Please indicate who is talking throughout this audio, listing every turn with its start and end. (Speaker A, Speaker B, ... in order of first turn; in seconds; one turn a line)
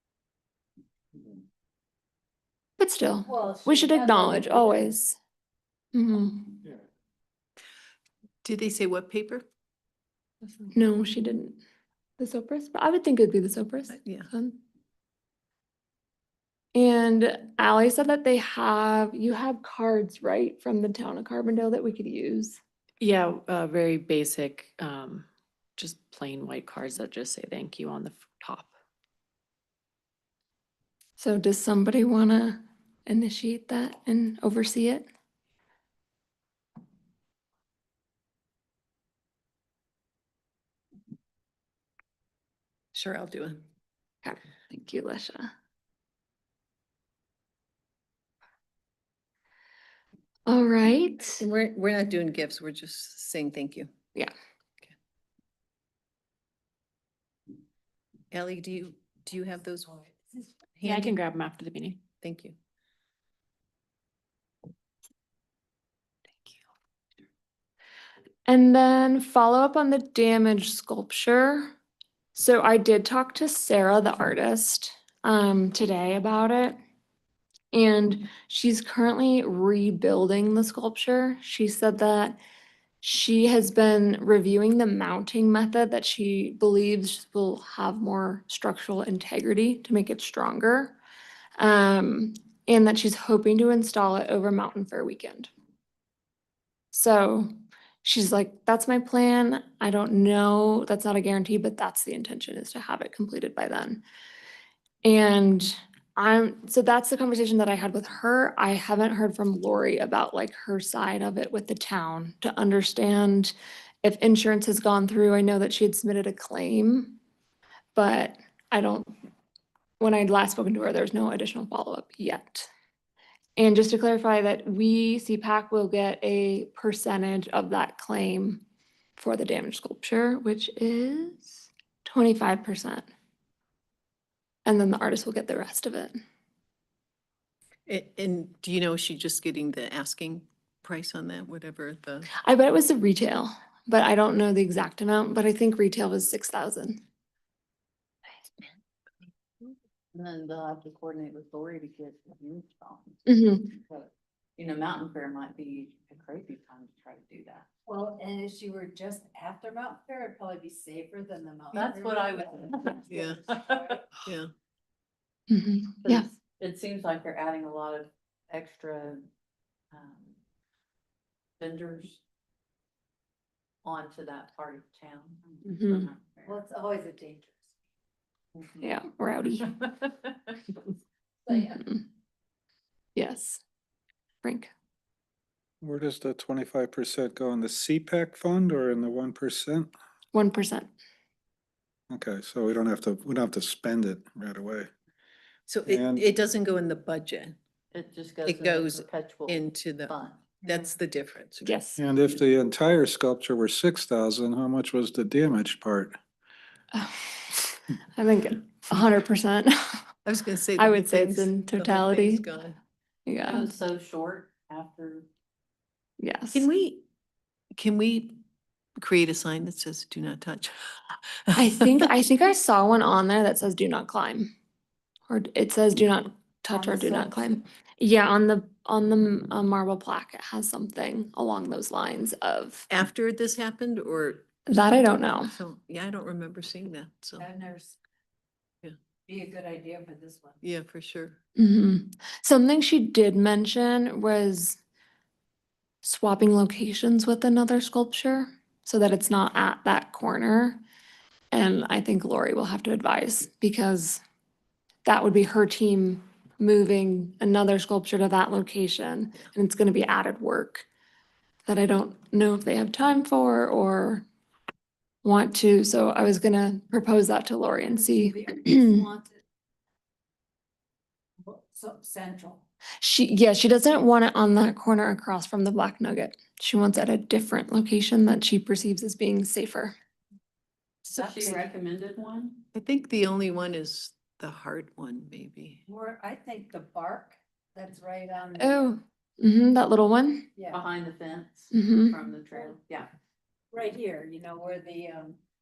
Speaker A: 2.8-5.2
Speaker B: 3.2-5.0
Speaker A: 5.9-6.6
Speaker C: 8.4-9.4
Speaker A: 10.7-11.6
Speaker A: 12.2-14.6
Speaker C: 13.9-14.3
Speaker A: 16.7-22.6
Speaker D: 23.0-25.2
Speaker D: 25.8-28.7
Speaker A: 31.2-35.1
Speaker C: 42.9-43.6
Speaker A: 44.2-45.5
Speaker A: 50.5-51.4
Speaker C: 51.2-53.9
Speaker C: 58.3-60.0
Speaker B: 59.9-60.4
Speaker C: 60.8-61.1
Speaker D: 60.8-62.0
Speaker C: 62.2-62.5
Speaker A: 68.5-71.7
Speaker A: 72.3-76.8
Speaker A: 77.7-82.4
Speaker A: 83.0-91.0
Speaker A: 91.6-95.5
Speaker A: 96.9-97.5
Speaker A: 98.0-104.0
Speaker A: 105.0-117.2
Speaker A: 118.0-119.1
Speaker A: 120.0-122.7
Speaker A: 123.6-128.6
Speaker A: 129.2-133.1
Speaker A: 134.7-136.2
Speaker C: 137.9-142.3
Speaker A: 142.3-147.0
Speaker E: 150.1-153.2
Speaker A: 153.2-153.7
Speaker E: 154.6-157.7
Speaker B: 157.9-164.1
Speaker E: 161.7-164.0
Speaker C: 163.1-163.4
Speaker A: 165.5-166.2
Speaker E: 166.0-169.3
Speaker E: 169.9-170.3
Speaker E: 171.6-172.2
Speaker E: 173.8-176.6
Speaker A: 175.6-176.1
Speaker B: 176.4-177.7
Speaker A: 178.8-179.8
Speaker B: 181.4-182.0
Speaker A: 183.2-183.6
Speaker A: 184.4-184.7
Speaker F: 185.8-189.9
Speaker A: 190.3-190.9
Speaker F: 192.1-194.9
Speaker C: 195.7-197.6
Speaker F: 195.8-196.2
Speaker E: 197.9-200.6
Speaker C: 198.4-201.8
Speaker A: 201.6-202.0
Speaker F: 202.0-206.2
Speaker A: 206.9-209.7
Speaker C: 210.2-212.8
Speaker A: 210.7-212.5
Speaker A: 213.2-213.7
Speaker E: 213.4-215.3
Speaker A: 216.2-216.7
Speaker C: 216.5-217.0
Speaker C: 217.8-218.4
Speaker C: 219.0-222.1
Speaker A: 221.5-224.5
Speaker A: 225.3-232.9
Speaker B: 226.7-227.6
Speaker C: 232.9-234.5
Speaker A: 234.7-235.5
Speaker C: 235.4-237.5
Speaker B: 237.4-238.0
Speaker B: 239.2-240.6
Speaker C: 240.6-241.4
Speaker A: 241.6-244.8
Speaker A: 246.0-250.8
Speaker A: 251.5-254.2
Speaker A: 255.1-260.9
Speaker A: 261.6-264.2
Speaker A: 265.2-269.0
Speaker B: 267.8-269.4
Speaker B: 271.4-272.6
Speaker A: 273.0-279.9
Speaker B: 281.1-281.7
Speaker E: 281.1-282.6
Speaker C: 282.7-285.8
Speaker B: 285.9-289.0
Speaker A: 288.6-290.5
Speaker B: 290.6-290.8
Speaker E: 290.7-293.1
Speaker A: 291.7-292.2
Speaker B: 293.7-295.4